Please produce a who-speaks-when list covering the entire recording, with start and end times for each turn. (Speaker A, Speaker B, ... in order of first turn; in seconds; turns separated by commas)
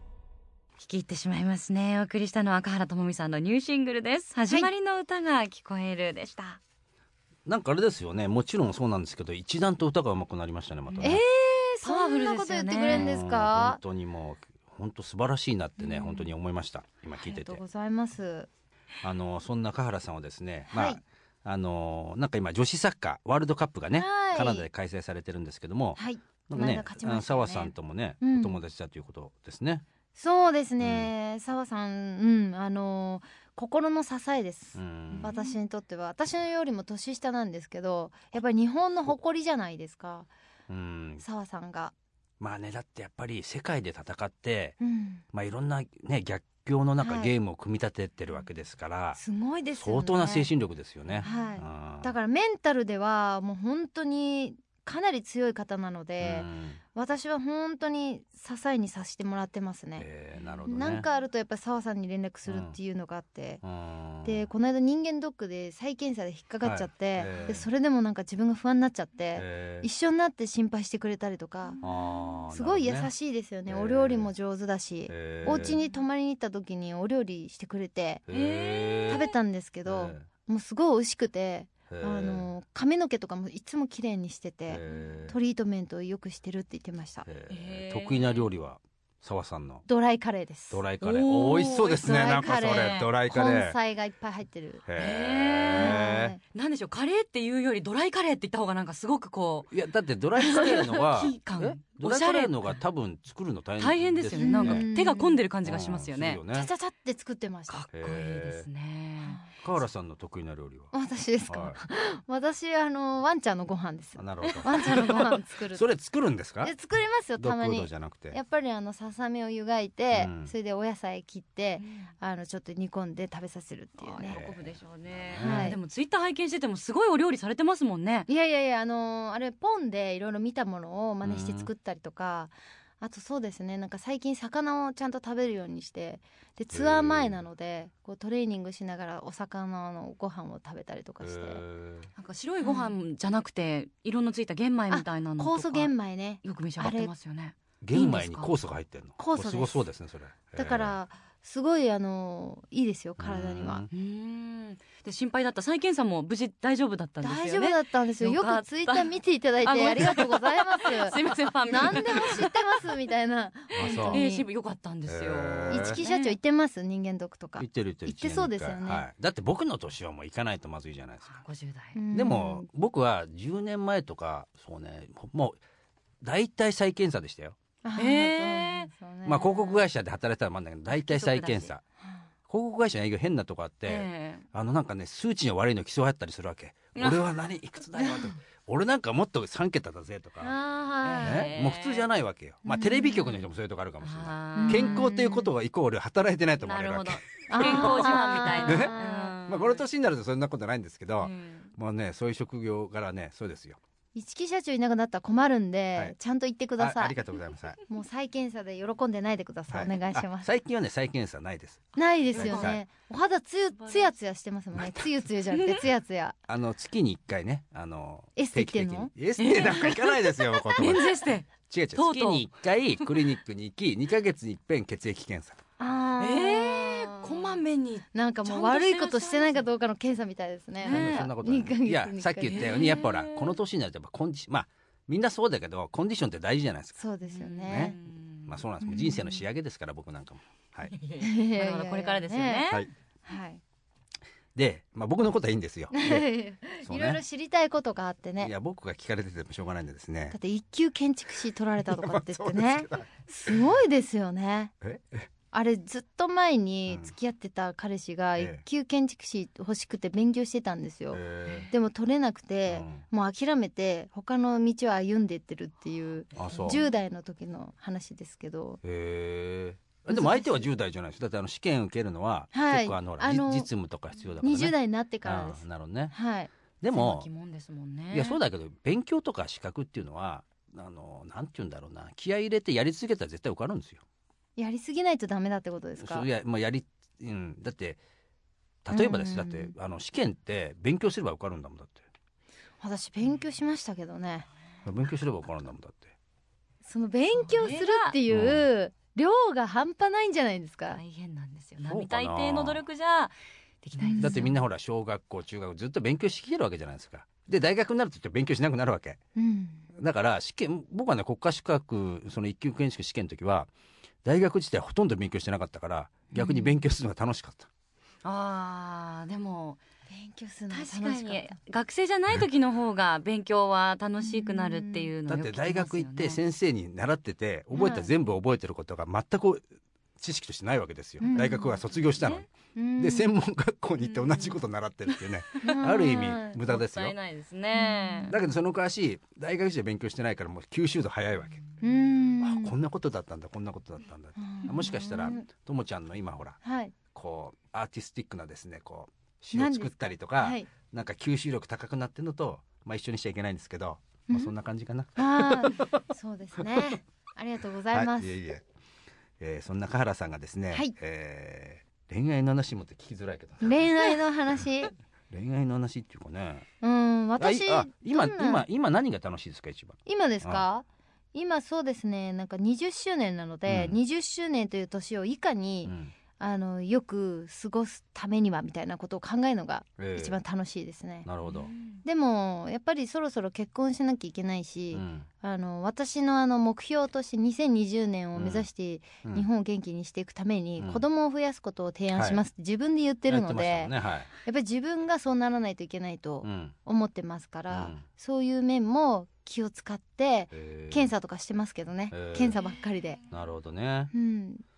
Speaker A: 0.8-6.6, Speaker B: 7.5-11.2, Speaker A: 10.9-11.2, Speaker C: 11.0-13.8, Speaker A: 11.8-13.1, Speaker B: 12.9-17.6, Speaker C: 15.8-16.2, Speaker C: 17.1-18.5, Speaker B: 19.0-29.9, Speaker C: 20.7-21.0, Speaker C: 23.9-24.7, Speaker C: 26.0-28.6, Speaker C: 30.2-40.3, Speaker B: 30.8-31.1, Speaker B: 34.8-35.3, Speaker A: 35.2-35.5, Speaker B: 40.7-41.2, Speaker C: 41.2-41.9, Speaker B: 42.4-44.8, Speaker C: 44.8-45.2, Speaker B: 45.3-49.2, Speaker C: 47.0-47.3, Speaker C: 49.2-50.5, Speaker B: 49.8-52.1, Speaker C: 51.2-60.1, Speaker B: 56.2-56.8, Speaker B: 60.0-61.1, Speaker C: 60.7-63.6, Speaker B: 62.5-62.8, Speaker B: 63.6-64.5, Speaker C: 64.2-71.8, Speaker B: 66.6-67.7, Speaker B: 69.4-69.9, Speaker B: 71.8-73.1, Speaker C: 72.5-78.2, Speaker B: 73.7-74.3, Speaker B: 75.1-75.8, Speaker B: 78.3-79.3, Speaker A: 78.3-79.3, Speaker C: 79.1-87.3, Speaker B: 79.8-80.3, Speaker B: 81.9-82.5, Speaker B: 84.7-85.3, Speaker A: 84.8-85.2, Speaker B: 87.3-89.8, Speaker A: 87.5-88.5, Speaker C: 89.9-90.8, Speaker B: 90.7-93.8, Speaker A: 91.0-92.1, Speaker C: 91.9-94.8, Speaker A: 92.7-93.0, Speaker B: 94.9-96.3, Speaker A: 95.0-99.7, Speaker C: 95.7-96.4, Speaker B: 99.7-104.9, Speaker A: 100.5-102.8, Speaker A: 103.8-106.4, Speaker C: 104.4-105.4, Speaker B: 105.6-106.7, Speaker C: 106.5-107.8, Speaker A: 107.7-109.4, Speaker B: 107.9-108.7, Speaker C: 109.2-109.5, Speaker B: 109.6-110.9, Speaker C: 110.9-115.8, Speaker B: 111.5-111.8, Speaker B: 114.2-116.7, Speaker A: 114.6-115.2, Speaker C: 116.6-124.4, Speaker B: 117.4-118.4, Speaker B: 120.1-120.5, Speaker A: 121.8-122.1, Speaker A: 124.0-128.3, Speaker B: 124.3-125.8, Speaker C: 125.4-125.8, Speaker C: 128.3-141.6, Speaker B: 131.2-131.7, Speaker B: 136.7-137.4, Speaker B: 141.2-142.1, Speaker A: 142.2-148.5, Speaker C: 142.6-142.9, Speaker C: 144.9-147.1, Speaker B: 147.8-150.9, Speaker C: 149.2-149.9, Speaker C: 150.6-153.8, Speaker B: 153.2-153.9, Speaker A: 153.9-162.5, Speaker C: 157.2-161.2, Speaker C: 161.7-164.4, Speaker B: 163.8-164.2, Speaker A: 163.8-166.4, Speaker B: 165.1-166.0, Speaker C: 165.7-169.0, Speaker B: 167.6-171.4, Speaker A: 171.3-172.0, Speaker C: 171.9-172.7, Speaker B: 172.1-175.6, Speaker B: 176.2-177.6, Speaker C: 177.8-179.8, Speaker A: 178.0-178.9, Speaker B: 179.2-181.8, Speaker A: 180.9-181.7, Speaker B: 182.5-190.6, Speaker A: 183.9-184.4, Speaker A: 186.9-187.3, Speaker C: 190.4-191.5, Speaker A: 191.0-192.1, Speaker B: 191.2-198.1, Speaker C: 192.7-193.3, Speaker A: 194.0-195.1, Speaker C: 194.6-195.5, Speaker A: 196.6-199.8, Speaker C: 197.5-199.4, Speaker B: 198.7-203.8, Speaker A: 201.2-201.7, Speaker C: 204.2-207.2, Speaker B: 206.8-207.8, Speaker C: 207.9-210.5, Speaker B: 209.7-212.8, Speaker C: 212.0-216.4, Speaker A: 212.3-212.8, Speaker A: 213.8-214.1, Speaker B: 214.8-215.0, Speaker A: 215.5-215.8, Speaker B: 216.5-221.1, Speaker C: 218.4-219.1, Speaker A: 219.4-220.2, Speaker A: 220.8-222.5, Speaker B: 221.7-225.6, Speaker C: 225.8-227.6, Speaker A: 226.2-229.7, Speaker C: 228.1-232.9, Speaker A: 230.8-231.3, Speaker B: 230.8-237.0, Speaker A: 232.5-233.5, Speaker C: 237.0-238.0, Speaker A: 237.3-238.6, Speaker B: 237.7-240.9, Speaker C: 238.8-239.3, Speaker A: 240.9-242.8, Speaker C: 241.2-242.7, Speaker C: 243.3-243.6, Speaker B: 244.6-246.3, Speaker C: 245.9-248.5, Speaker B: 246.8-247.2, Speaker B: 248.4-250.4, Speaker C: 250.3-254.7, Speaker B: 251.9-253.6, Speaker B: 254.8-255.3, Speaker C: 255.5-268.8, Speaker B: 261.1-261.7, Speaker B: 262.7-263.0, Speaker B: 266.4-266.8, Speaker A: 266.5-266.8, Speaker B: 268.8-276.1, Speaker C: 270.1-270.7, Speaker C: 272.5-273.7, Speaker C: 274.4-276.5, Speaker B: 276.8-277.3, Speaker A: 276.9-278.4, Speaker B: 278.1-284.0, Speaker C: 284.6-286.3, Speaker B: 286.0-288.0, Speaker B: 288.9-292.0, Speaker C: 288.9-289.7, Speaker C: 292.8-294.5, Speaker B: 294.9-296.1, Speaker C: 296.8-301.0, Speaker A: 297.5-298.2, Speaker B: 298.3-298.7, Speaker A: 300.9-304.6, Speaker B: 301.8-302.8, Speaker C: 304.0-304.4, Speaker B: 304.2-309.2, Speaker C: 309.4-309.9, Speaker B: 309.9-313.7, Speaker B: 314.2-317.7, Speaker A: 316.4-316.7, Speaker A: 318.2-319.8, Speaker C: 320.1-321.6, Speaker A: 320.7-326.4, Speaker C: 324.2-325.1, Speaker B: 325.3-329.6, Speaker C: 327.7-328.1, Speaker B: 330.2-332.5, Speaker C: 331.2-331.8, Speaker C: 332.8-333.3, Speaker B: 333.0-337.1, Speaker A: 334.1-334.6, Speaker C: 335.6-336.6, Speaker A: 335.6-338.3, Speaker C: 337.7-338.4, Speaker B: 338.3-341.6, Speaker C: 341.8-342.7, Speaker B: 342.4-346.6, Speaker C: 344.4-345.5, Speaker C: 346.6-346.9, Speaker B: 347.1-355.9, Speaker C: 349.5-350.7, Speaker C: 355.2-358.4, Speaker B: 357.9-358.6, Speaker B: 359.4-364.1, Speaker C: 363.6-364.9, Speaker B: 365.3-366.7, Speaker C: 366.8-368.6, Speaker B: 367.4-370.6, Speaker C: 370.1-381.3, Speaker B: 373.7-374.0, Speaker B: 375.9-376.1, Speaker B: 380.0-380.4, Speaker B: 381.3-381.7, Speaker A: 381.4-382.0, Speaker C: 382.1-403.2, Speaker B: 384.9-385.3, Speaker B: 388.4-388.7, Speaker B: 390.8-391.0, Speaker B: 392.1-392.4, Speaker B: 393.3-394.3, Speaker B: 396.4-396.8, Speaker B: 397.7-398.0, Speaker B: 400.5-401.1, Speaker B: 402.1-402.6, Speaker B: 403.3-404.1, Speaker C: 404.1-404.6